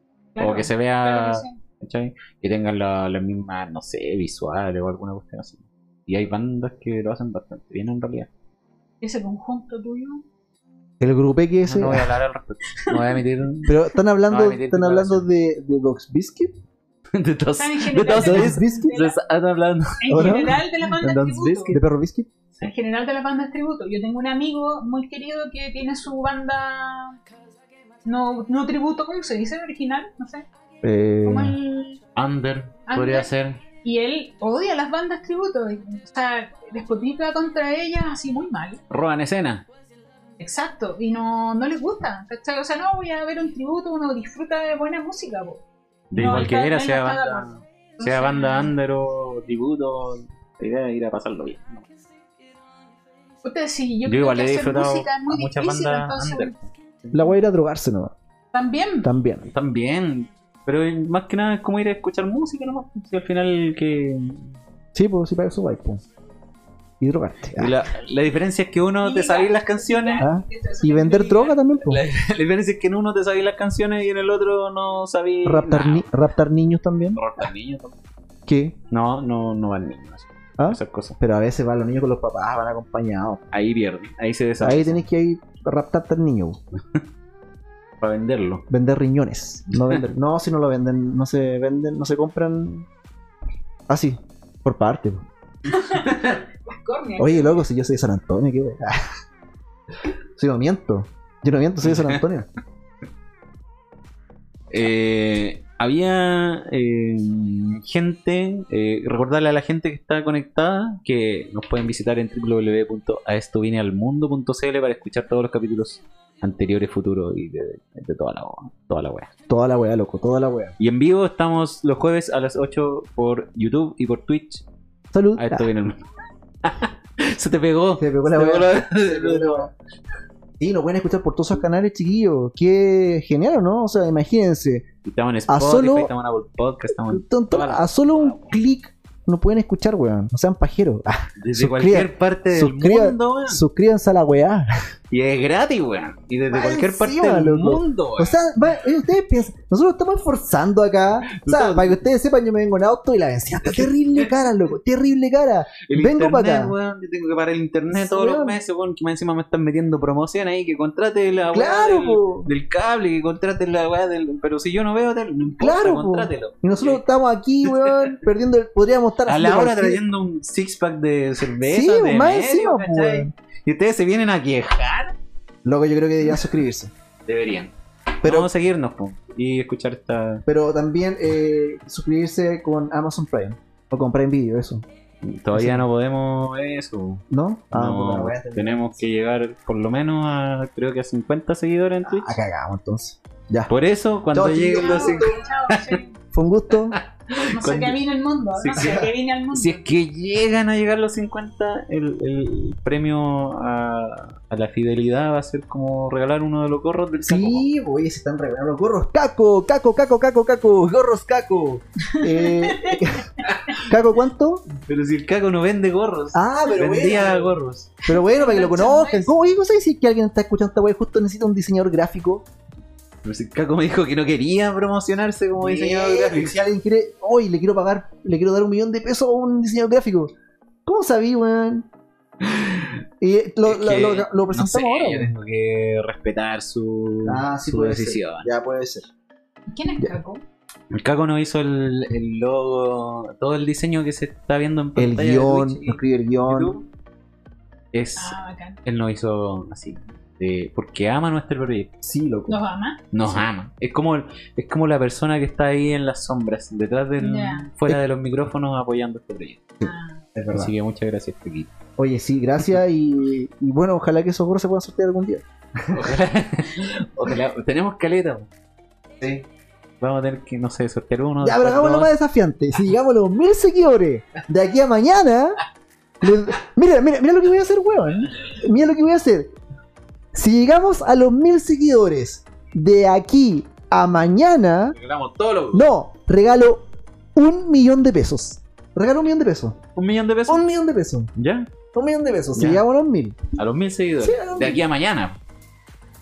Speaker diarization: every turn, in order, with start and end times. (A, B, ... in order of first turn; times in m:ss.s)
0:00.3-0:01.6 A
0:00.4-0:08.3 B
0:09.0-0:10.2 A
0:11.0-0:12.1 C
0:11.6-0:15.2 B
0:12.8-0:13.1 A
0:13.6-0:16.5 C
0:17.1-0:21.8 B
0:17.6-0:19.2 A
0:18.1-0:18.9 C
0:20.0-0:21.8 A
0:20.1-0:20.6 C
0:21.7-0:22.3 C
0:22.6-0:27.2 A
0:28.0-0:30.4 A
0:30.8-0:31.6 C
0:31.2-0:32.0 A
0:32.2-0:33.6 B
0:32.9-0:33.3 A
0:33.8-0:38.8 A
0:38.9-0:39.6 B
0:40.4-0:45.6 A
0:46.1-0:51.8 B
0:46.2-0:48.7 A
0:53.4-0:56.6 A
0:54.0-0:57.2 B
0:57.1-0:58.1 C
0:58.5-0:59.1 A
0:59.0-0:59.5 C
0:59.5-1:04.6 B
1:04.9-1:06.0 C
1:07.0-1:07.7 C
1:07.6-1:10.2 B
1:09.0-1:11.6 A
1:10.2-1:12.0 C
1:11.8-1:16.1 B
1:15.4-1:17.2 C
1:17.2-1:18.0 B
1:18.5-1:18.8 C
1:18.9-1:21.2 B
1:20.6-1:23.4 C
1:23.5-1:25.0 B
1:24.6-1:26.6 C
1:28.0-1:28.6 B
1:28.7-1:32.9 C
1:33.9-1:35.3 C
1:35.7-1:37.6 A
1:37.2-1:39.0 C
1:40.4-1:42.5 C
1:41.8-1:42.2 B
1:44.7-1:59.3 B
1:59.5-2:00.7 C
2:00.8-2:04.6 B
2:05.1-2:05.7 C
2:05.4-2:06.0 B
2:06.6-2:09.7 B
2:08.0-2:09.7 C
2:10.6-2:14.8 C
2:15.0-2:18.5 B
2:15.5-2:16.1 C
2:17.0-2:24.7 C
2:21.4-2:23.6 B
2:25.1-2:28.4 B
2:26.5-2:36.7 C
2:31.3-2:32.0 B
2:33.6-2:34.5 B
2:35.9-2:47.0 B
2:37.9-2:38.6 C
2:41.5-2:42.5 C
2:45.6-2:50.0 C
2:47.6-2:48.1 B
2:49.3-2:55.1 B
2:51.6-2:53.3 C
2:55.6-2:56.9 C
2:57.3-3:00.4 B
2:58.2-2:58.5 C
3:00.5-3:04.8 C
3:05.2-3:12.4 B
3:05.5-3:05.9 C
3:07.3-3:09.0 C
3:12.0-3:13.7 C
3:13.7-3:16.0 B
3:14.3-3:15.4 C
3:14.7-3:16.2 A
3:16.3-3:17.0 C
3:16.9-3:18.0 B
3:17.5-3:19.8 A
3:18.6-3:27.6 B
3:18.8-3:19.1 C
3:27.2-3:34.7 C
3:32.1-3:33.8 A
3:34.8-3:37.9 B
3:36.3-3:37.5 C
3:38.0-3:39.3 A
3:38.0-3:42.5 C
3:43.2-3:46.6 B
3:45.6-3:50.3 C
3:50.8-3:51.9 C
3:52.4-3:53.0 B
3:53.2-3:55.3 C
3:53.6-3:58.5 B
3:57.2-3:59.1 C
3:59.7-4:00.4 A
4:00.9-4:06.8 B
4:05.0-4:06.8 C
4:07.9-4:11.9 B
4:08.2-4:08.8 A
4:12.0-4:12.6 C
4:12.5-4:13.1 A
4:13.1-4:19.8 B
4:17.2-4:17.7 A
4:19.8-4:20.2 A
4:19.8-4:20.7 C
4:20.5-4:21.7 B
4:22.0-4:26.2 C
4:25.9-4:28.5 B
4:29.2-4:29.4 C
4:30.0-4:32.1 B
4:31.4-4:35.6 C
4:36.2-4:39.5 C
4:40.3-4:45.0 C
4:45.0-4:45.9 B
4:45.7-4:49.8 C
4:50.0-4:50.6 B
4:50.5-4:51.3 C
4:51.4-4:51.7 B
4:51.9-4:53.4 C
4:52.5-4:52.8 B
4:53.6-4:55.4 B
4:54.2-4:54.8 C